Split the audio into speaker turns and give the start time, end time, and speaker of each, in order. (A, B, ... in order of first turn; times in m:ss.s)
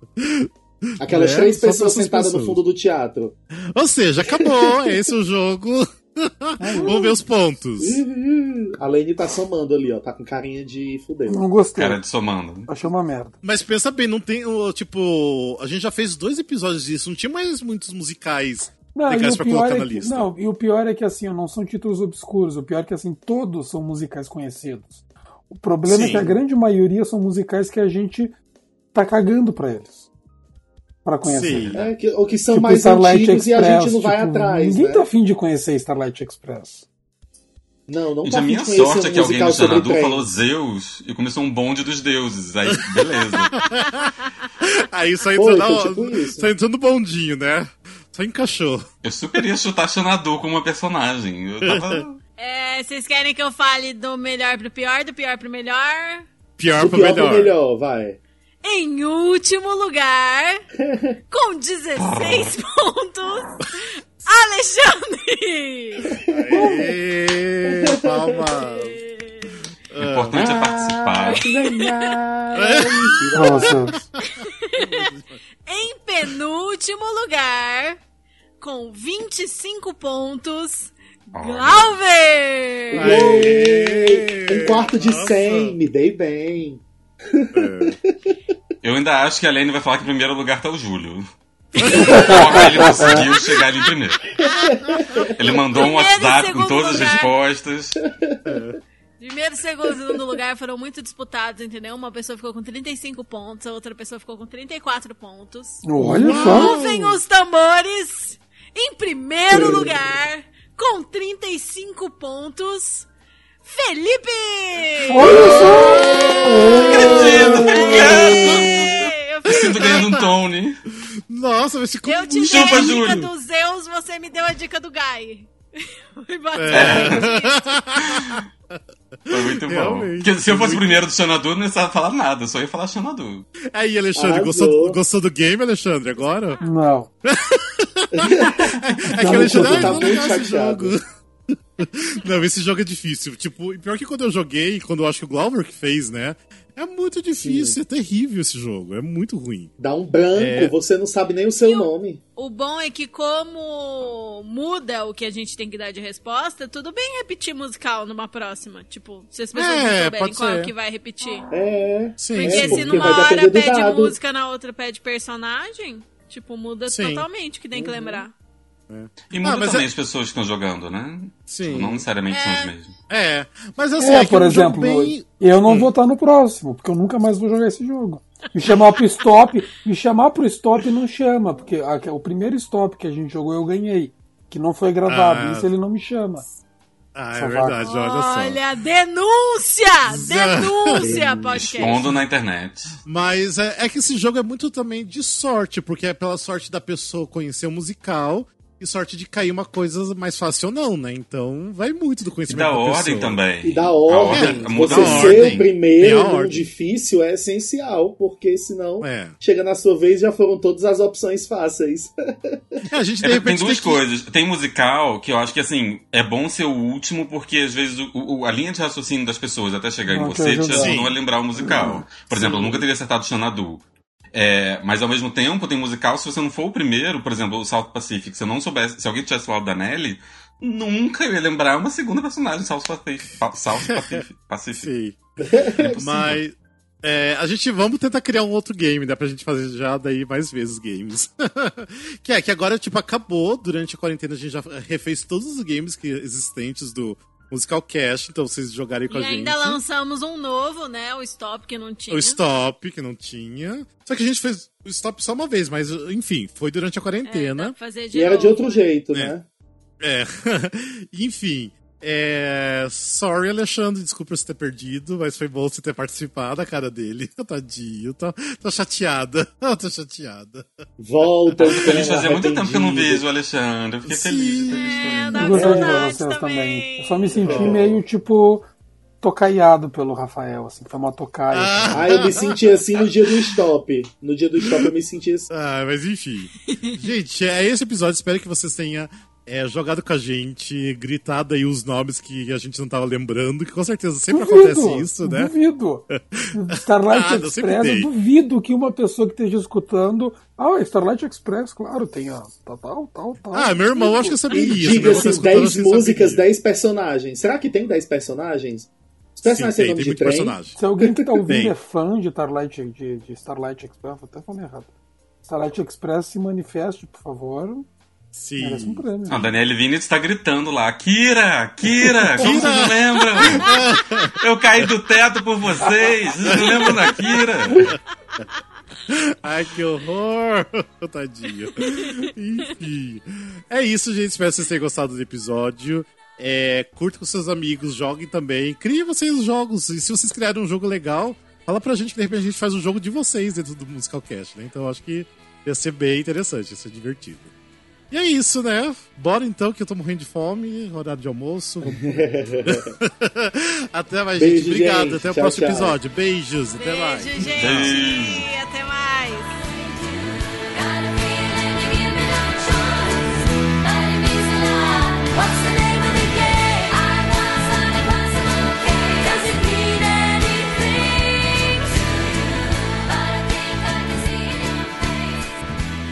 0:00.2-0:02.6 A
0:01.0-0:03.3 B
0:03.6-0:08.0 A
0:04.3-0:05.0 B
0:06.6-0:07.2 C
0:06.7-0:07.0 B
0:07.8-0:11.4 B
0:11.2-0:12.0 C
0:11.8-0:12.7 D
0:12.7-0:13.3 C
0:13.4-0:20.3 A
0:18.9-0:28.4 C
0:25.9-0:26.3 A
0:26.0-0:26.4 B
0:28.9-0:30.1 C
0:31.0-0:31.8 C
0:31.2-0:31.8 A
0:31.7-0:35.1 B
0:32.5-0:36.8 C
0:37.9-0:40.3 B
0:38.2-0:43.6 D
0:42.7-0:43.0 A
0:43.5-0:48.8 A
0:43.6-0:44.3 E
0:45.3-0:46.5 B
0:49.0-0:52.2 D
0:51.6-0:52.0 A
0:52.4-0:56.3 E
0:56.6-0:57.5 A
0:56.8-0:58.2 B
0:58.6-1:00.6 E
1:00.8-1:01.1 B
1:01.3-1:06.1 E
1:02.0-1:02.5 D
1:06.1-1:06.9 B
1:06.2-1:09.0 A
1:07.9-1:08.2 B
1:08.5-1:09.6 E
1:09.9-1:10.4 A
1:10.0-1:11.6 D
1:10.3-1:14.0 B
1:11.6-1:12.1 E
1:12.6-1:13.0 A
1:13.3-1:14.0 C
1:13.6-1:15.4 A
1:14.3-1:15.1 E
1:15.6-1:18.0 E
1:18.6-1:23.5 E
1:21.3-1:21.9 D
1:22.9-1:28.1 B
1:22.9-1:25.8 A
1:27.5-1:28.0 A
1:28.8-1:31.2 D
1:31.8-1:32.4 A
1:31.8-1:34.2 D
1:31.8-1:33.8 E
1:32.1-1:33.1 C
1:34.4-1:35.5 B
1:34.4-1:35.2 E
1:35.3-1:38.0 D
1:35.7-1:37.3 E
1:38.1-1:38.6 B
1:38.4-1:38.8 A
1:39.2-1:53.1 E
1:45.8-1:46.8 C
1:46.0-1:47.2 A
1:49.5-1:50.0 B
1:53.6-1:59.7 E
1:55.1-1:58.2 C
1:55.2-1:56.5 A
1:55.8-1:57.9 B
1:56.9-1:58.8 D
1:57.2-2:00.3 A
1:59.4-2:00.8 D
2:01.3-2:03.3 A
2:02.0-2:07.8 E
2:02.4-2:03.3 D
2:06.5-2:11.0 A
2:06.7-2:07.3 D
2:08.1-2:08.4 D
2:09.3-2:13.4 D
2:13.7-2:16.6 A
2:14.2-2:15.0 B
2:16.3-2:16.7 E
2:16.6-2:17.1 C
2:17.2-2:29.7 A
2:18.2-2:20.9 B
2:19.2-2:20.3 C
2:27.4-2:27.8 B
2:29.8-2:32.2 B
2:30.3-2:30.7 A
2:31.6-2:41.5 E
2:39.5-2:40.7 A
2:41.5-2:44.2 B
2:42.2-2:43.2 A
2:42.3-2:48.3 E
2:46.8-2:47.2 A
2:47.7-2:48.2 B
2:48.9-2:49.9 A
2:49.3-2:52.9 D
2:51.5-2:52.0 A
2:52.3-2:52.7 E
2:53.1-2:55.9 A
2:54.0-3:06.4 C
3:05.0-3:05.7 A
3:07.1-3:08.6 A
3:07.3-3:07.8 C
3:07.8-3:12.0 E
3:10.1-3:12.1 A
3:11.0-3:11.8 B
3:11.7-3:13.0 D
3:13.0-3:23.4 A
3:22.5-3:25.7 D
3:23.6-3:32.8 B
3:24.3-3:26.7 A
3:29.0-3:29.4 A
3:32.8-3:34.0 A
3:33.2-3:54.9 D
3:40.1-3:41.0 C
3:40.7-3:41.2 A
3:41.6-3:42.5 C
3:53.5-3:54.2 A
3:54.8-3:55.1 A
3:55.4-3:56.2 B
3:55.8-4:09.8 A
3:55.8-3:56.4 D
4:09.1-4:12.4 E
4:12.1-4:17.7 A
4:17.2-4:18.9 E
4:18.1-4:19.4 B
4:20.0-4:30.8 A
4:31.0-4:33.2 B
4:31.6-4:32.0 A
4:31.6-4:36.1 D
4:34.0-4:35.9 A
4:34.8-4:37.4 E
4:35.4-4:38.7 C
4:37.4-4:38.0 B
4:37.4-4:38.0 A
4:39.2-4:42.1 C
4:41.5-4:43.5 A
4:41.9-4:45.5 B
4:45.5-4:55.5 A
4:46.7-4:47.0 E
4:54.3-5:05.5 C
4:56.1-4:58.1 A
5:03.5-5:06.4 A
5:04.5-5:11.4 B
5:09.4-5:10.8 A
5:10.8-5:14.9 C
5:11.5-5:11.8 A
5:15.4-5:17.9 C
5:18.3-5:19.0 A
5:18.6-5:19.4 C
5:19.3-5:28.0 D
5:22.1-5:24.9 A
5:22.4-5:22.7 C
5:26.5-5:27.1 A
5:29.1-5:47.5 A
5:31.8-5:32.3 E
5:48.1-5:58.0 A
5:51.8-5:52.9 B
5:54.4-5:56.0 B
5:56.8-6:00.0 E
5:57.5-5:58.5 D
6:00.9-6:11.9 E
6:13.1-6:15.5 E